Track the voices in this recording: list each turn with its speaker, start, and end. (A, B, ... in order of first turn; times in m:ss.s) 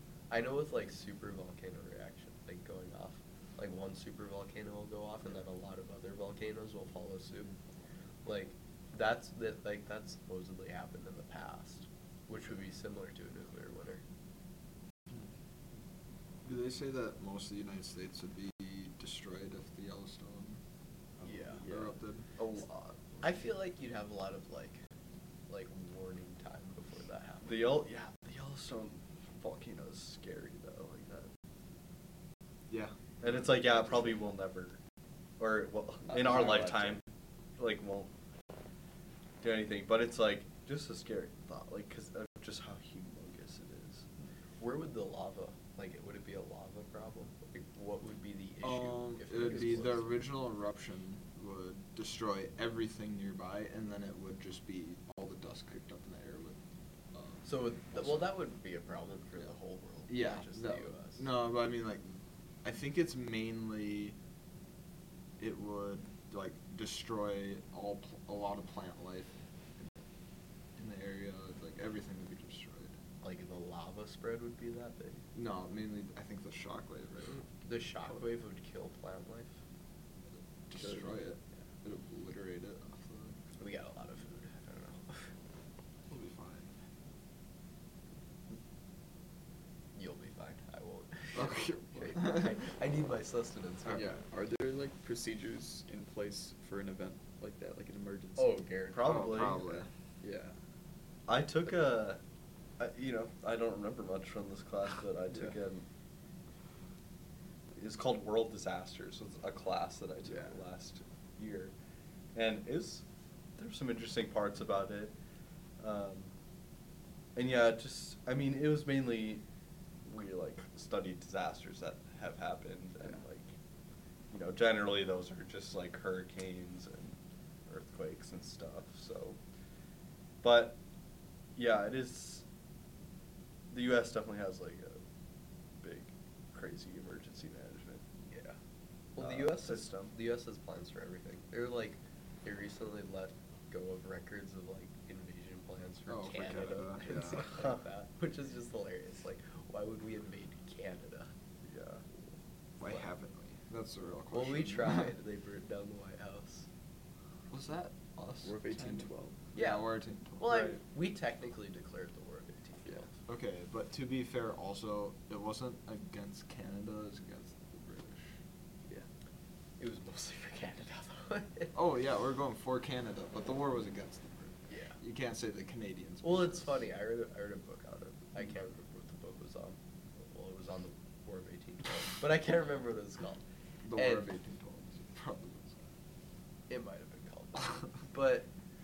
0:00.3-0:07.5 A
0:08.2-0:14.0 A
0:16.4-0:20.6 B
0:21.2-0:21.6 A
0:21.6-0:22.3 B
0:22.4-0:23.4 C
0:23.2-0:24.8 A
0:25.5-0:27.5 A
0:27.4-0:31.3 C
0:32.7-0:32.9 B
0:33.2-0:34.8 C
0:35.4-0:37.0 C
0:36.0-0:37.0 D
0:37.6-0:38.1 C
0:39.4-0:44.0 C
0:44.6-0:50.1 A
0:48.6-0:56.6 B
0:57.1-0:58.3 B
0:57.4-1:01.2 A
1:00.1-1:04.2 B
1:05.4-1:10.0 B
1:10.8-1:12.9 B
1:13.2-1:15.2 A
1:15.3-1:17.4 B
1:17.6-1:19.5 A
1:20.7-1:23.4 B
1:23.6-1:25.3 A
1:26.1-1:26.7 B
1:29.9-1:34.2 A
1:31.3-1:32.5 B
1:33.9-1:38.6 D
1:38.4-1:39.5 A
1:38.9-1:39.7 C
1:39.0-1:39.9 B
1:40.2-1:40.6 D
1:41.3-1:42.2 C
1:42.8-1:45.8 C
1:47.7-1:51.7 C
1:50.3-1:50.6 D
1:52.3-1:53.0 C
1:53.6-1:55.1 C
1:55.8-1:56.3 C
1:57.4-1:59.4 C
2:00.0-2:03.5 C
2:04.3-2:09.4 C
2:10.4-2:10.8 C
2:11.6-2:12.4 C
2:13.7-2:15.0 C
2:15.8-2:18.0 C
2:18.3-2:18.6 A
2:19.2-2:31.3 A
2:19.2-2:20.1 C
2:26.1-2:27.4 B
2:27.4-2:27.8 C
2:31.6-2:32.0 C
2:32.8-2:35.1 B
2:34.3-2:36.7 A
2:37.5-2:40.5 B
2:38.4-2:39.4 D
2:39.6-2:43.1 A
2:40.5-2:40.8 C
2:43.3-2:48.3 B
2:49.8-2:51.7 A
2:51.7-2:56.7 B
2:54.7-2:55.0 A
2:56.2-3:03.4 A
3:03.8-3:05.9 B
3:03.9-3:04.3 A
3:06.7-3:08.5 A